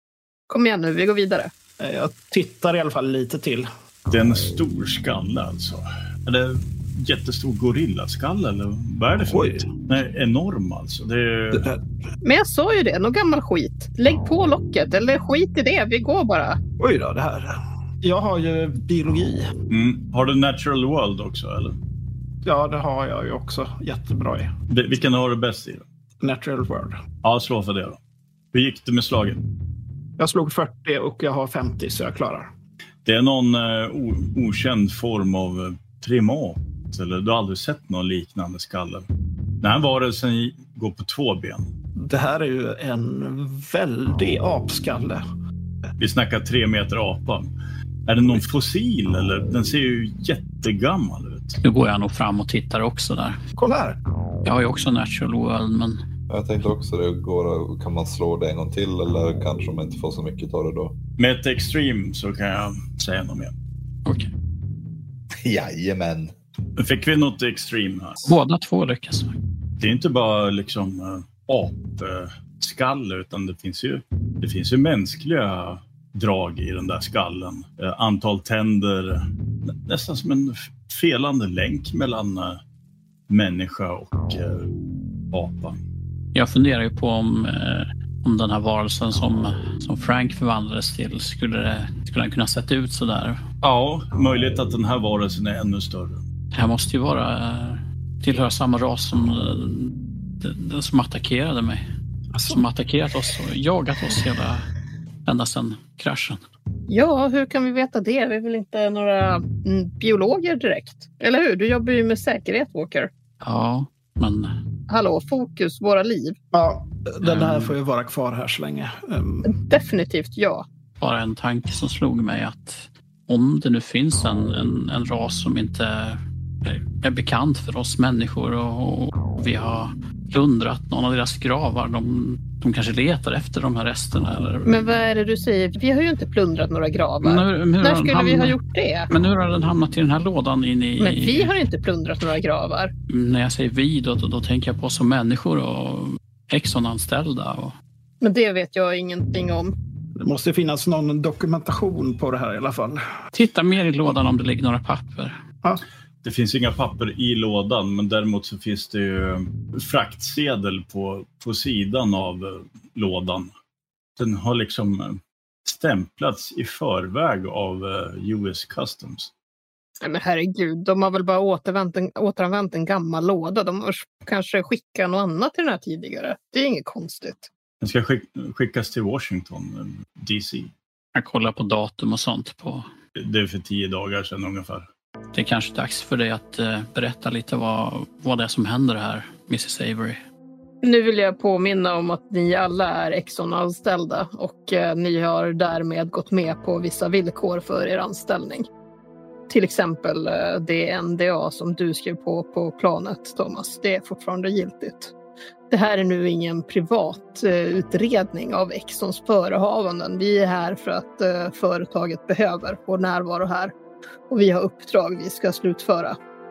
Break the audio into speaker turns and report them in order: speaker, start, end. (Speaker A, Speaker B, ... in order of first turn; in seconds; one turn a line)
Speaker A: 0.5-1.5
Speaker B: 1.8-3.7
Speaker C: 4.1-11.7
Speaker B: 9.3-9.7
Speaker B: 11.5-11.8
Speaker A: 12.2-16.6
Speaker B: 16.8-19.5
Speaker C: 19.7-21.8
Speaker B: 22.4-24.5
Speaker C: 24.7-25.8
Speaker B: 26.2-27.0
Speaker C: 27.2-28.0
Speaker C: 28.5-29.4
Speaker B: 30.2-32.5
Speaker C: 33.0-39.0
Speaker C: 39.6-41.7
Speaker B: 42.0-45.2
Speaker C: 46.0-47.5
Speaker C: 48.0-51.6
Speaker D: 51.6-53.4
Speaker B: 53.5-54.0
Speaker D: 54.4-56.0
Speaker E: 56.3-61.0
Speaker C: 61.2-63.5
Speaker E: 65.4-66.3
Speaker C: 66.8-68.3
Speaker D: 68.2-69.3
Speaker C: 69.8-82.6
Speaker C: 83.3-84.7
Speaker C: 85.3-85.8
Speaker D: 86.3-93.4
Speaker C: 93.6-96.2
Speaker D: 96.5-101.8
Speaker B: 102.3-102.6
Speaker D: 102.5-104.7
Speaker D: 105.2-106.4
Speaker A: 106.9-113.1
Speaker D: 113.4-114.5
Speaker A: 114.9-116.3
Speaker B: 116.5-119.5
Speaker D: 117.2-117.7
Speaker A: 119.5-120.6
Speaker D: 121.0-134.9
Speaker A: 134.7-139.1
Speaker D: 137.2-138.6
Speaker D: 139.1-141.5
Speaker A: 141.0-142.9
Speaker D: 143.1-147.7
Speaker A: 148.2-149.7
Speaker B: 150.2-153.0
Speaker D: 153.3-155.4
Speaker C: 156.2-163.5
Speaker C: 164.2-169.3
Speaker A: 170.0-177.5
Speaker C: 177.8-180.7
Speaker D: 181.1-182.8
Speaker C: 183.2-184.9
Speaker D: 185.3-190.2
Speaker A: 190.8-198.7
Speaker A: 199.5-205.1
Speaker A: 205.7-213.7
Speaker A: 214.3-216.2